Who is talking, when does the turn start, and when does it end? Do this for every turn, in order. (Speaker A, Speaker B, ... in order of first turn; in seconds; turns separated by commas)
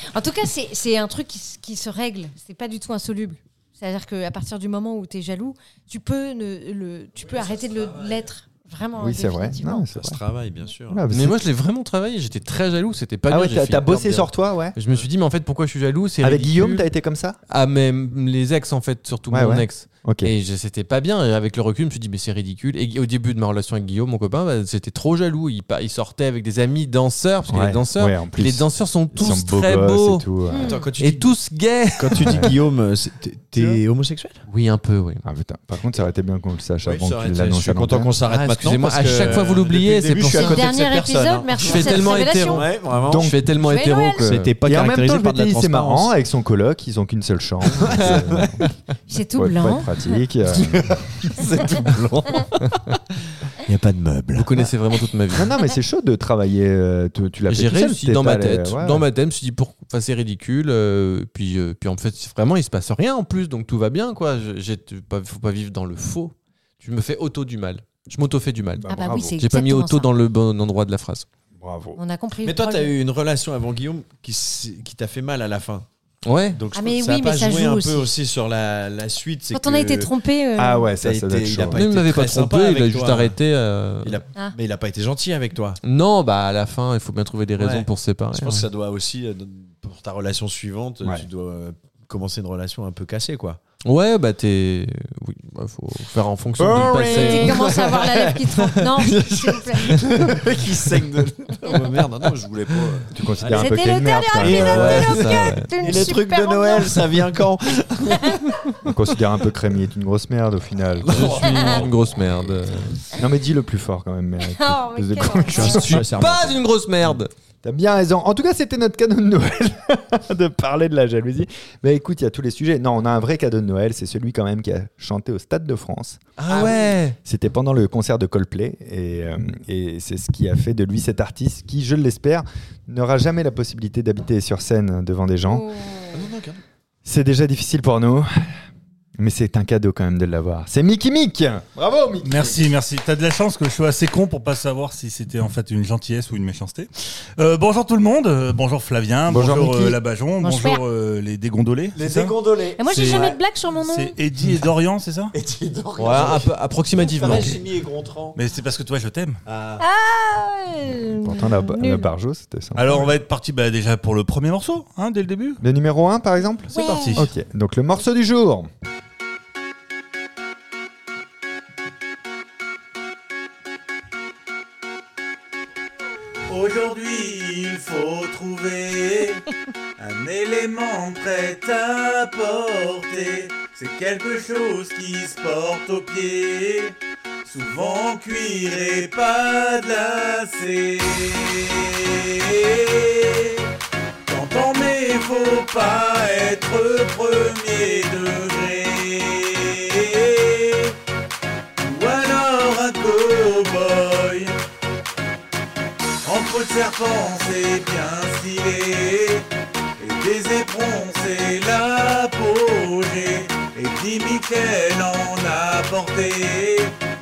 Speaker A: 0.1-9.9, Speaker B: 7.3-8.2, Speaker C: 8.9-10.2, Speaker B: 9.9-11.0, Speaker C: 10.9-11.4, Speaker D: 11.1-16.9, Speaker C: 13.3-14.8, Speaker C: 16.2-17.4, Speaker D: 17.5-30.2, Speaker C: 19.3-20.3, Speaker C: 27.5-30.8, Speaker A: 30.5-30.8, Speaker B: 30.6-31.3, Speaker D: 31.0-32.5, Speaker B: 32.0-34.4, Speaker C: 32.2-32.5, Speaker D: 34.5-35.2, Speaker C: 35.2-38.1, Speaker B: 36.8-43.3, Speaker D: 38.2-40.8, Speaker A: 40.3-42.7, Speaker D: 41.6-44.5, Speaker C: 43.1-43.4, Speaker A: 43.6-44.3, Speaker B: 44.3-46.1, Speaker C: 44.6-51.5, Speaker B: 47.8-48.6, Speaker A: 49.1-50.2, Speaker B: 50.5-52.8, Speaker B: 53.6-54.6, Speaker D: 54.3-55.5, Speaker C: 55.3-59.1, Speaker D: 57.5-68.9, Speaker C: 68.8-69.3, Speaker A: 68.9-70.1, Speaker D: 69.4-71.3, Speaker C: 71.6-72.0, Speaker A: 72.0-72.9, Speaker B: 72.4-75.9, Speaker D: 76.2-76.6, Speaker B: 76.5-80.1, Speaker A: 76.7-78.1, Speaker A: 79.5-80.9, Speaker C: 80.6-81.9, Speaker B: 81.0-83.4, Speaker D: 81.7-84.2, Speaker B: 84.0-85.8, Speaker D: 85.8-88.7, Speaker B: 87.6-93.6, Speaker D: 93.9-97.7, Speaker B: 96.6-103.7, Speaker A: 96.8-100.0, Speaker C: 103.1-105.1, Speaker A: 103.6-107.0, Speaker B: 104.4-108.4, Speaker D: 104.6-105.7, Speaker A: 108.1-108.5, Speaker C: 108.8-111.7, Speaker B: 111.0-112.7, Speaker D: 111.1-113.0, Speaker C: 113.2-116.0, Speaker A: 114.4-115.9, Speaker B: 115.3-117.2, Speaker D: 115.6-117.3, Speaker C: 117.6-126.2, Speaker D: 126.4-127.2, Speaker B: 126.4-127.0, Speaker C: 127.2-135.7, Speaker A: 135.4-136.2, Speaker B: 136.1-136.6, Speaker C: 137.0-138.6, Speaker C: 139.2-142.7, Speaker E: 142.2-152.4, Speaker C: 149.3-150.0, Speaker A: 150.4-150.8, Speaker B: 151.9-153.4, Speaker A: 152.8-154.1, Speaker E: 153.8-155.3, Speaker B: 155.3-158.4, Speaker D: 156.0-157.6, Speaker E: 158.4-159.4, Speaker B: 159.4-159.8, Speaker A: 159.8-162.1, Speaker C: 161.2-163.1, Speaker E: 162.8-165.6, Speaker C: 165.6-168.7, Speaker A: 166.7-167.2, Speaker E: 166.7-167.3, Speaker E: 176.5-179.4, Speaker E: 180.0-186.9, Speaker E: 187.4-193.7, Speaker E: 194.2-200.9, Speaker E: 201.8-204.6, Speaker E: 206.2-209.4, Speaker E: 210.0-216.9